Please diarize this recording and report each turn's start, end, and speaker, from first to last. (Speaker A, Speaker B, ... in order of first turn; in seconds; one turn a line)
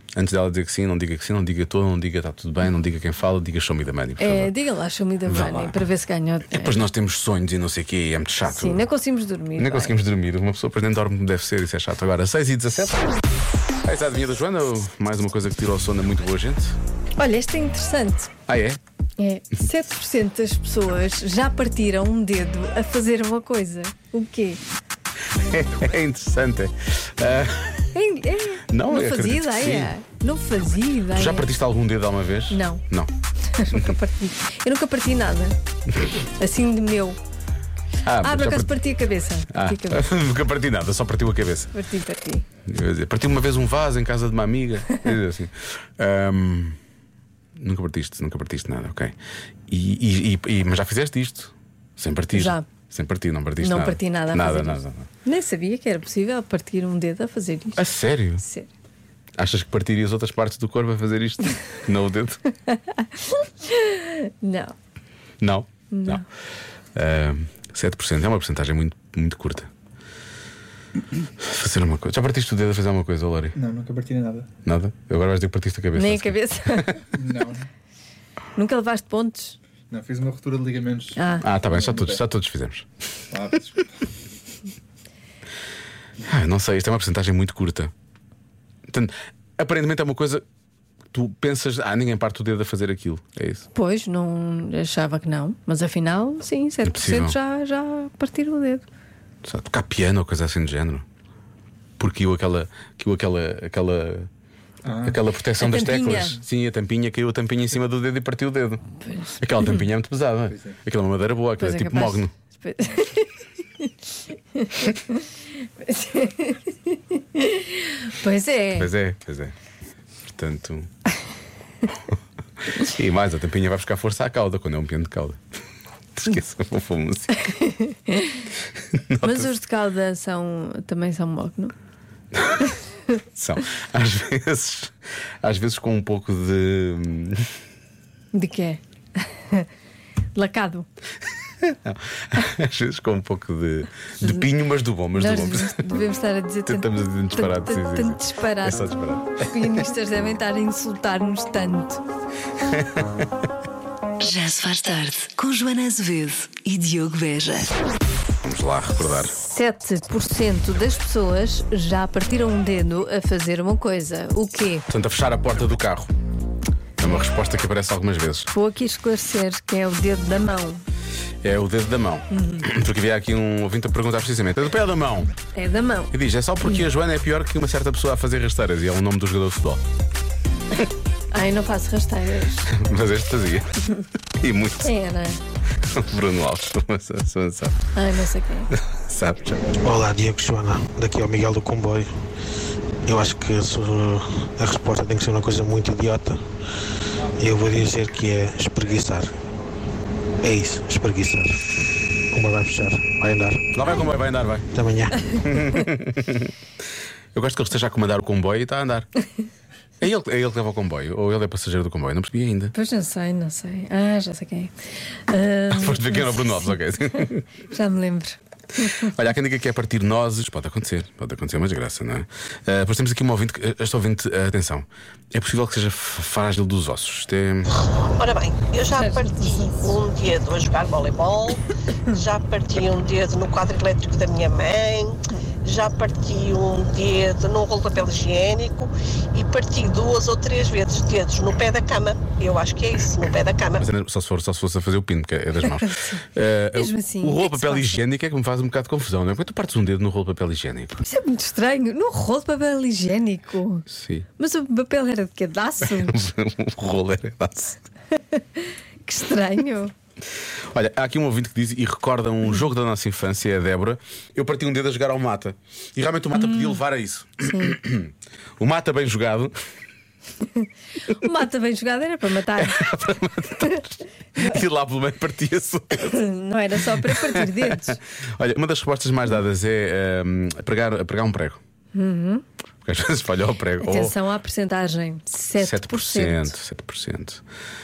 Speaker A: 0.1-4.5
Speaker B: 4.2-6.9
Speaker A: 5.3-5.8
Speaker A: 6.5-8.8
Speaker B: 8.4-9.9
Speaker A: 9.6-13.1
Speaker A: 13.8-16.8
Speaker B: 17.2-18.3
Speaker A: 18.5-18.8
Speaker B: 19.2-24.6
Speaker A: 25.4-27.9
Speaker B: 27.9-31.5
Speaker A: 28.7-29.9
Speaker A: 31.1-33.1
Speaker B: 32.5-32.8
Speaker B: 33.5-35.5
Speaker B: 36.4-37.2
Speaker A: 38.0-38.8
Speaker B: 38.2-40.1
Speaker A: 39.5-41.7
Speaker B: 41.7-42.5
Speaker A: 42.7-46.8
Speaker A: 47.6-49.1
Speaker A: 49.7-55.1
Speaker B: 52.3-52.6
Speaker B: 53.6-58.7
Speaker A: 57.8-58.4
Speaker A: 59.4-62.4
Speaker B: 62.7-64.7
Speaker A: 65.4-66.2
Speaker B: 65.9-66.2
Speaker A: 67.0-69.7
Speaker A: 71.4-73.6
Speaker C: 73.5-74.5
Speaker A: 74.7-77.0
Speaker B: 75.9-77.0
Speaker C: 77.2-77.7
Speaker B: 78.6-79.6
Speaker C: 79.9-82.2
Speaker B: 81.2-81.5
Speaker A: 81.4-82.9
Speaker C: 83.3-83.9
Speaker A: 86.2-87.9
Speaker A: 88.9-90.4
Speaker A: 91.1-93.7
Speaker B: 93.7-98.9
Speaker A: 96.8-97.4
Speaker A: 99.4-101.0
Speaker A: 102.0-104.3
Speaker C: 104.8-105.2
Speaker A: 105.0-108.8
Speaker B: 105.6-106.4
Speaker B: 109.0-109.4
Speaker A: 109.4-112.3
Speaker C: 110.5-110.8
Speaker B: 111.6-113.3
Speaker B: 114.6-115.2
Speaker B: 115.8-118.9
Speaker A: 118.8-119.5
Speaker A: 120.3-120.9
Speaker A: 122.7-125.4
Speaker A: 126.2-127.5
Speaker B: 127.6-128.4
Speaker A: 128.9-129.5
Speaker B: 129.2-131.7
Speaker A: 132.3-132.7
Speaker A: 133.3-137.4
Speaker B: 138.3-138.8
Speaker B: 140.4-140.9
Speaker A: 141.6-146.0
Speaker B: 144.2-144.5
Speaker B: 145.1-152.0
Speaker A: 146.7-149.9
Speaker A: 152.6-153.2
Speaker D: 154.2-157.7
Speaker A: 158.4-159.4
Speaker B: 159.4-164.8
Speaker A: 164.9-166.1
Speaker A: 167.0-168.5
Speaker B: 168.5-170.8
Speaker A: 171.4-175.3
Speaker B: 172.3-172.7
Speaker B: 175.6-176.8
Speaker A: 176.1-179.8
Speaker B: 181.3-182.7
Speaker A: 182.7-183.8
Speaker A: 184.4-184.9
Speaker B: 184.8-185.4
Speaker A: 185.8-187.8
Speaker B: 187.9-188.7
Speaker A: 188.8-189.6
Speaker E: 189.8-192.1
Speaker E: 193.1-196.4
Speaker E: 197.4-199.3
Speaker E: 200.5-201.5
Speaker E: 202.3-203.6
Speaker A: 203.7-204.7
Speaker A: 205.3-206.5
Speaker A: 207.3-209.1
Speaker A: 210.0-212.7
Speaker B: 212.7-214.7
Speaker B: 215.3-216.8
Speaker A: 215.7-217.5
Speaker B: 217.7-219.1
Speaker A: 218.8-227.7
Speaker F: 228.1-231.6
Speaker B: 228.9-230.1
Speaker F: 232.2-243.8
Speaker A: 243.8-251.1
Speaker B: 245.6-246.2
Speaker B: 246.7-248.0
Speaker B: 251.1-253.9
Speaker A: 253.9-254.3
Speaker B: 254.4-256.2
Speaker A: 255.8-257.8
Speaker B: 258.3-259.9
Speaker A: 260.7-269.5
Speaker B: 266.3-266.8
Speaker B: 267.4-267.8
Speaker B: 270.6-272.8
Speaker A: 272.5-276.2
Speaker B: 276.0-278.0
Speaker A: 276.9-281.6
Speaker B: 281.9-282.4
Speaker A: 282.8-284.2
Speaker B: 283.8-286.5
Speaker A: 285.6-287.4